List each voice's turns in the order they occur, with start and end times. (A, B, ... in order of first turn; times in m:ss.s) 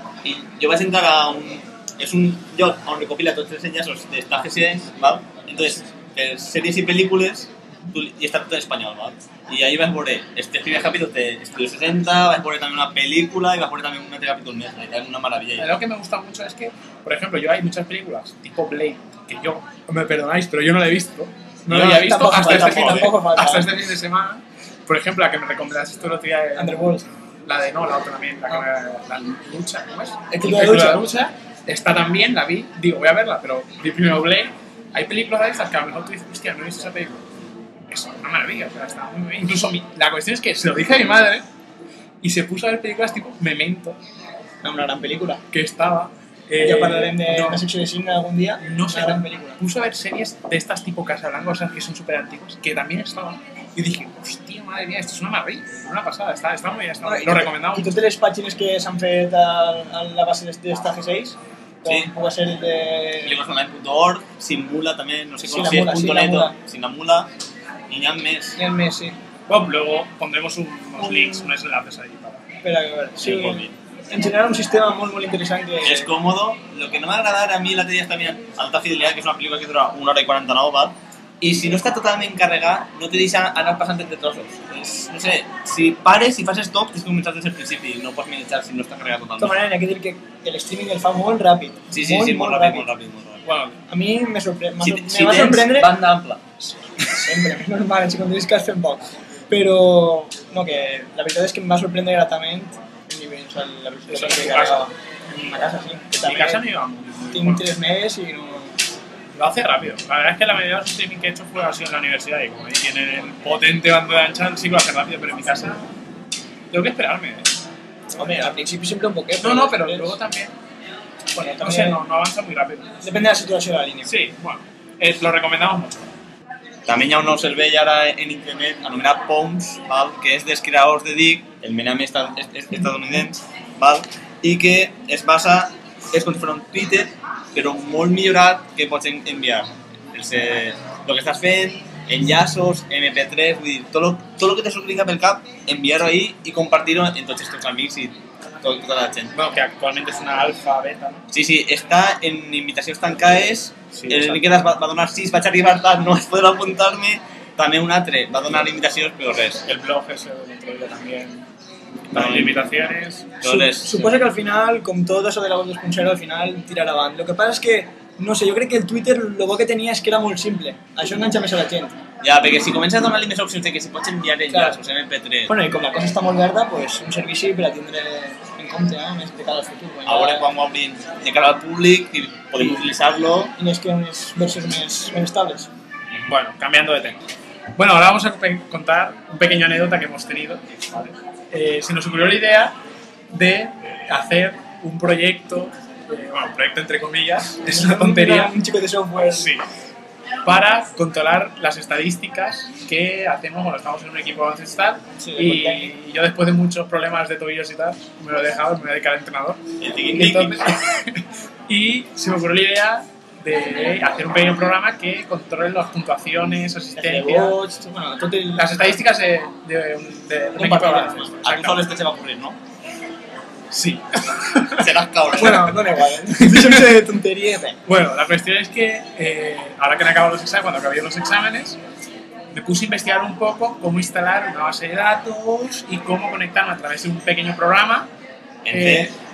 0:00.2-0:15.7 A
0:15.6-0:26.8 B
0:21.7-0:23.1 A
0:21.7-0:23.7 C
0:26.6-0:27.0 C
0:27.4-0:37.2 B
0:30.3-0:31.0 C
0:37.9-0:41.4 B
0:42.2-0:44.0 B
0:44.6-0:45.4 C
0:45.5-0:47.6 B
0:46.6-0:49.6 C
0:48.6-0:58.0 B
0:57.0-1:03.4 C
1:01.8-1:02.1 A
1:03.2-1:07.3 A
1:05.5-1:06.6 C
1:07.9-1:08.6 A
1:08.6-1:09.2 C
1:09.5-1:12.4 B
1:11.0-1:11.5 C
1:12.6-1:16.1 C
1:13.2-1:13.8 A
1:15.8-1:29.6 A
1:29.4-1:32.9 C
1:31.9-1:33.4 A
1:33.4-1:33.8 B
1:33.9-1:35.9 C
1:34.8-1:36.5 A
1:37.1-1:46.6 C
1:44.1-1:44.9 B
1:46.2-1:47.7 B
1:47.3-1:48.7 C
1:49.3-1:55.9 B
1:56.7-1:57.5 B
1:58.2-2:00.2 C
1:59.4-2:00.5 B
2:01.4-2:02.0 C
2:01.5-2:03.0 B
2:03.0-2:04.1 C
2:04.0-2:06.1 B
2:06.8-2:29.3 A
2:29.3-2:31.3 B
2:31.3-2:39.6 A
2:33.9-2:34.4 B
2:39.6-2:41.4 B
2:42.1-2:43.4 B
2:42.1-2:42.6 A
2:43.4-2:44.2 A
2:43.4-2:52.0 C
2:52.2-2:55.5 A
2:54.5-2:54.8 C
2:55.5-3:00.5 C
3:00.0-3:03.5 A
3:03.6-3:05.7 C
3:06.2-3:07.2 B
3:07.8-3:12.7 B
3:13.3-3:18.5 B
3:17.6-3:19.5 C
3:19.3-3:19.6 B
3:20.4-3:29.6 B
3:25.2-3:25.9 C
3:29.8-3:30.6 A
3:30.1-3:37.6 B
3:37.0-3:38.8 C
3:38.6-3:41.8 B
3:40.6-3:41.3 C
3:41.4-3:42.6 A
3:43.7-3:44.9 B
3:44.8-3:45.7 A
3:45.3-3:47.8 C
3:46.4-3:47.0 B
3:47.8-3:51.8 B
3:52.5-3:58.1 B
3:58.6-3:59.1 A
3:58.7-3:59.1 B